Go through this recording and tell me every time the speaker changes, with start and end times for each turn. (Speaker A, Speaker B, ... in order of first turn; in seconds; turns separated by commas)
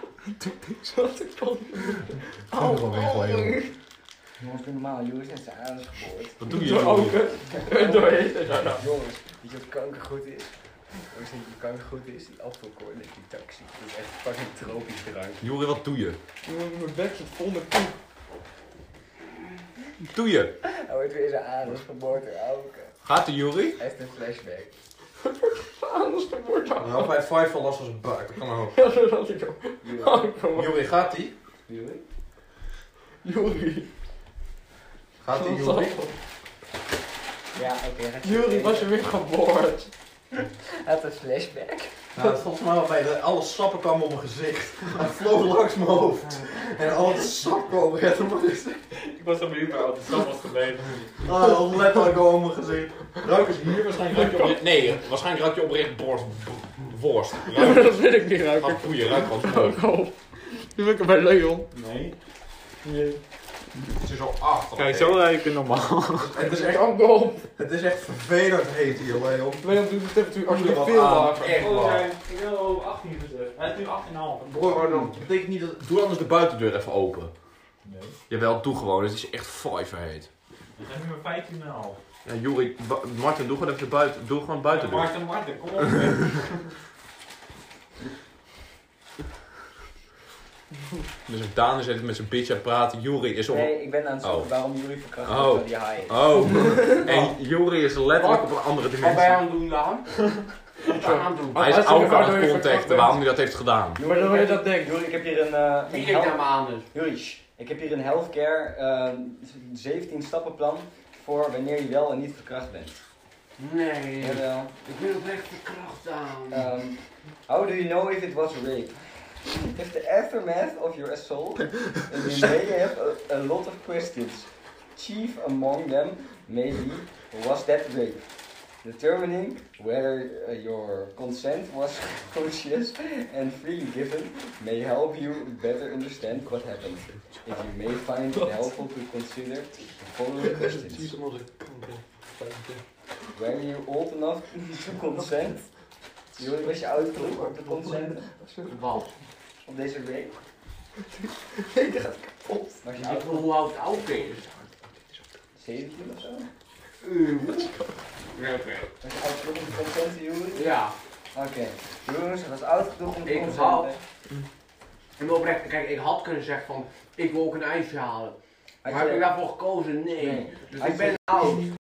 Speaker A: 0.4-3.7, Speaker B: 2.5-3.6, Speaker C: 4.4-6.4, Speaker B: 6.4-7.2, Speaker A: 6.5-8.8, Speaker C: 7.5-15.4, Speaker B: 15.4-16.2, Speaker A: 16.4-17.9, Speaker B: 20.1-20.5, Speaker C: 20.6-22.9, Speaker B: 23.0-23.8, Speaker C: 23.8-24.7, Speaker A: 25.2-27.1, Speaker B: 26.8-28.8, Speaker A: 28.7-30.8, Speaker C: 29.8-30.3, Speaker B: 30.5-31.3, Speaker C: 31.7-32.0, Speaker A: 33.2-33.9, Speaker B: 35.2-36.0, Speaker A: 35.3-36.1, Speaker C: 37.5-38.9, Speaker A: 38.2-39.9, Speaker C: 40.6-41.9, Speaker B: 42.1-49.0, Speaker D: 49.0-51.3, Speaker B: 51.2-58.0, Speaker A: 54.1-54.6, Speaker A: 57.5-61.7, Speaker B: 58.5-59.8, Speaker D: 61.7-62.1, Speaker A: 62.8-63.2, Speaker B: 64.0-65.3, Speaker D: 64.7-66.3, Speaker B: 66.2-66.9, Speaker A: 66.2-67.5, Speaker B: 67.5-69.7, Speaker A: 69.6-71.6, Speaker B: 70.4-72.1, Speaker D: 71.4-75.1, Speaker B: 74.5-77.3, Speaker D: 77.8-78.2, Speaker B: 78.3-80.3, Speaker D: 80.8-82.0, Speaker B: 82.2-85.1, Speaker D: 84.7-86.7, Speaker B: 91.3-94.5, Speaker C: 93.5-96.6, Speaker B: 95.2-99.4, Speaker E: 98.1-100.2, Speaker E: 100.8-101.8, Speaker A: 100.8-103.2, Speaker B: 101.5-104.0, Speaker C: 103.9-113.0, Speaker A: 104.0-105.0, Speaker E: 105.9-106.9, Speaker E: 113.6-116.7, Speaker C: 114.2-114.7, Speaker C: 116.5-128.3, Speaker C: 128.8-141.1, Speaker A: 138.3-138.7, Speaker A: 140.4-142.8, Speaker C: 143.3-145.6, Speaker C: 146.3-148.2, Speaker A: 146.4-149.1, Speaker E: 148.7-149.1, Speaker C: 149.6-150.3, Speaker A: 151.1-152.8, Speaker C: 152.8-153.6, Speaker E: 152.9-154.5, Speaker A: 154.3-155.2, Speaker C: 155.6-156.5, Speaker E: 157.0-157.7, Speaker A: 157.4-158.0, Speaker E: 158.3-158.9, Speaker C: 159.0-160.8, Speaker E: 160.5-160.9, Speaker C: 161.3-164.0, Speaker E: 163.2-163.9, Speaker E: 165.2-171.7, Speaker C: 168.8-169.3, Speaker C: 170.2-171.2